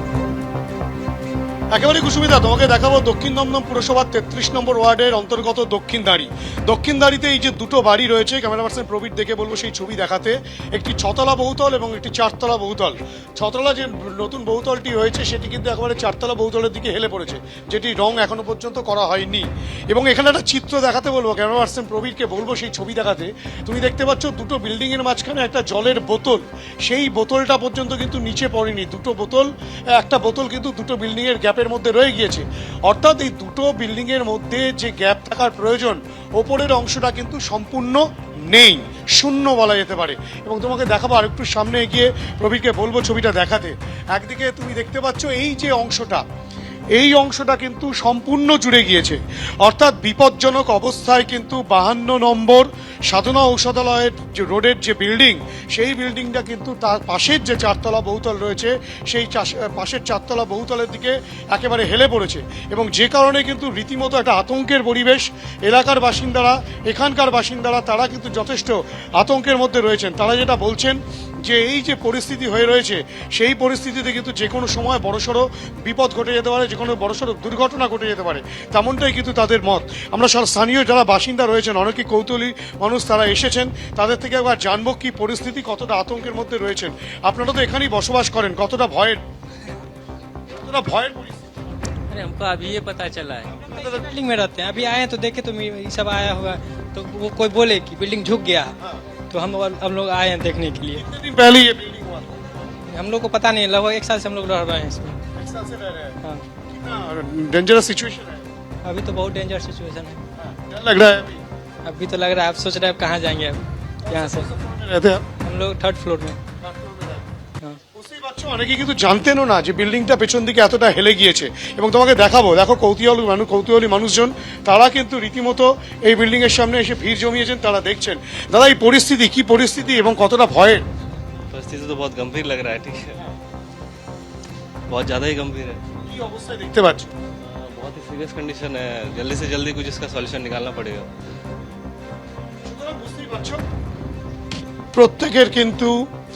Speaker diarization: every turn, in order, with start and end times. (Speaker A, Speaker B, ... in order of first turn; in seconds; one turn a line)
Speaker A: 1.7-46.2
Speaker A: 46.9-89.2
Speaker A: 90.5-91.4
Speaker B: 92.1-93.5
Speaker A: 93.5-94.0
Speaker C: 93.7-98.7
Speaker C: 99.3-101.0
Speaker A: 101.0-102.3
Speaker C: 102.9-105.2
Speaker A: 105.3-106.2
Speaker A: 106.7-108.4
Speaker C: 108.8-110.2
Speaker A: 110.3-111.4
Speaker C: 111.8-114.5
Speaker A: 114.0-115.2
Speaker C: 115.4-116.4
Speaker A: 116.6-117.3
Speaker A: 117.9-130.8
Speaker B: 131.5-133.2
Speaker B: 134.9-135.8
Speaker A: 136.1-137.1
Speaker B: 137.4-141.1
Speaker A: 142.6-143.6
Speaker A: 144.9-145.9